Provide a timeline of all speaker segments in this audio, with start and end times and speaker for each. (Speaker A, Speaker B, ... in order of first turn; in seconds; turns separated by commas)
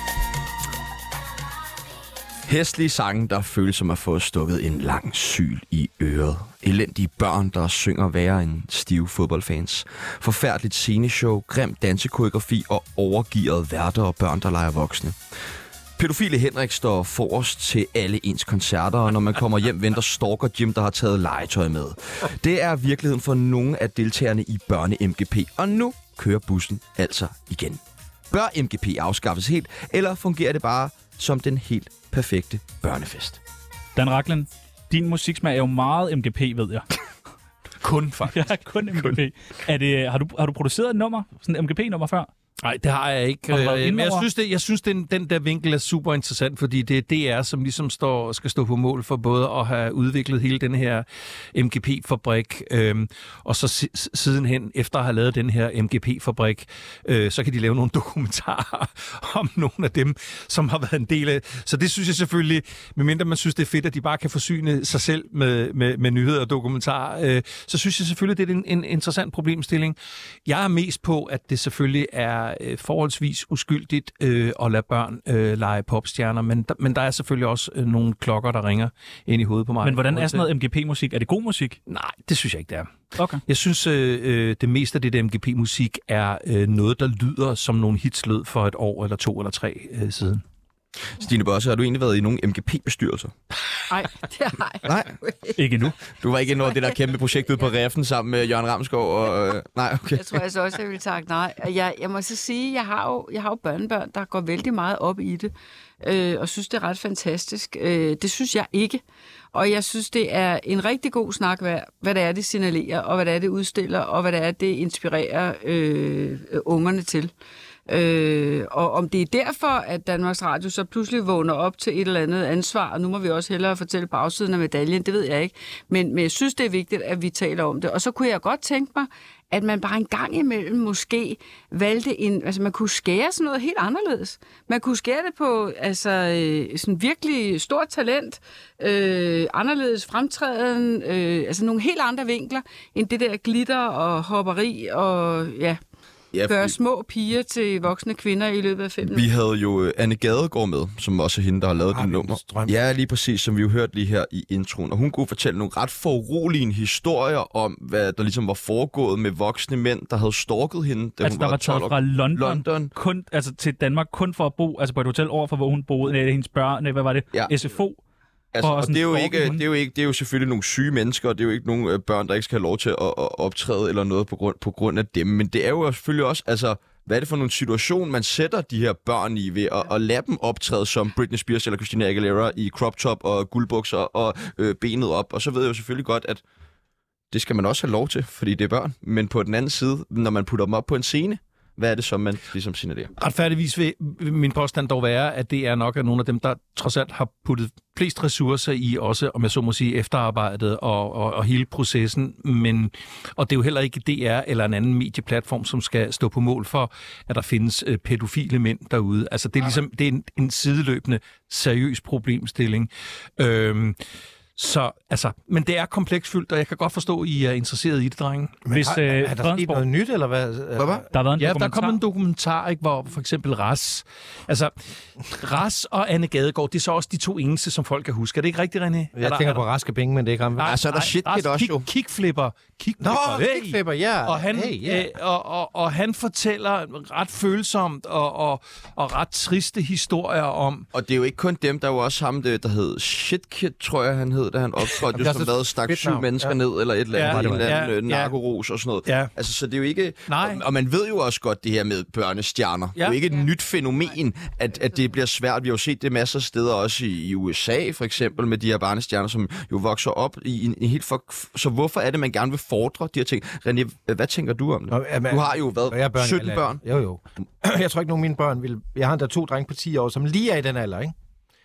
Speaker A: 2.5-15.2, Speaker A: 16.0-33.4, Speaker B: 34.0-36.9, Speaker C: 37.8-38.4, Speaker B: 38.3-42.3, Speaker C: 42.6-80.5, Speaker B: 43.5-44.3, Speaker B: 79.8-81.8, Speaker C: 81.9-82.9, Speaker B: 83.2-83.4, Speaker C: 83.5-90.4, Speaker A: 91.2-93.3, Speaker D: 93.9-95.6, Speaker A: 94.8-95.1, Speaker B: 95.6-96.0, Speaker A: 96.2-100.4, Speaker D: 96.7-96.9, Speaker D: 100.1-109.0, Speaker D: 109.5-117.3, Speaker D: 117.9-145.8, Speaker A: 146.3-146.8, Speaker D: 146.4-149.2, Speaker A: 149.0-162.9, Speaker E: 151.9-152.8, Speaker B: 161.2-168.0, Speaker A: 168.5-186.4, Speaker B: 168.6-169.6, Speaker A: 187.3-193.1, Speaker C: 193.2-214.0, Speaker C: 214.6-218.6, Speaker E: 218.7-221.1, Speaker B: 218.7-219.8, Speaker A: 220.8-221.0, Speaker B: 221.1-222.0, Speaker C: 221.4-224.7, Speaker C: 225.3-229.6, Speaker E: 229.2-230.8, Speaker C: 230.6-240.8, Speaker A: 230.6-231.9, Speaker E: 233.0-235.1, Speaker A: 240.9-266.8, Speaker E: 245.1-246.6, Speaker C: 247.1-248.3, Speaker E: 247.2-247.8, Speaker C: 249.0-249.3, Speaker C: 250.3-250.6, Speaker E: 264.9-271.1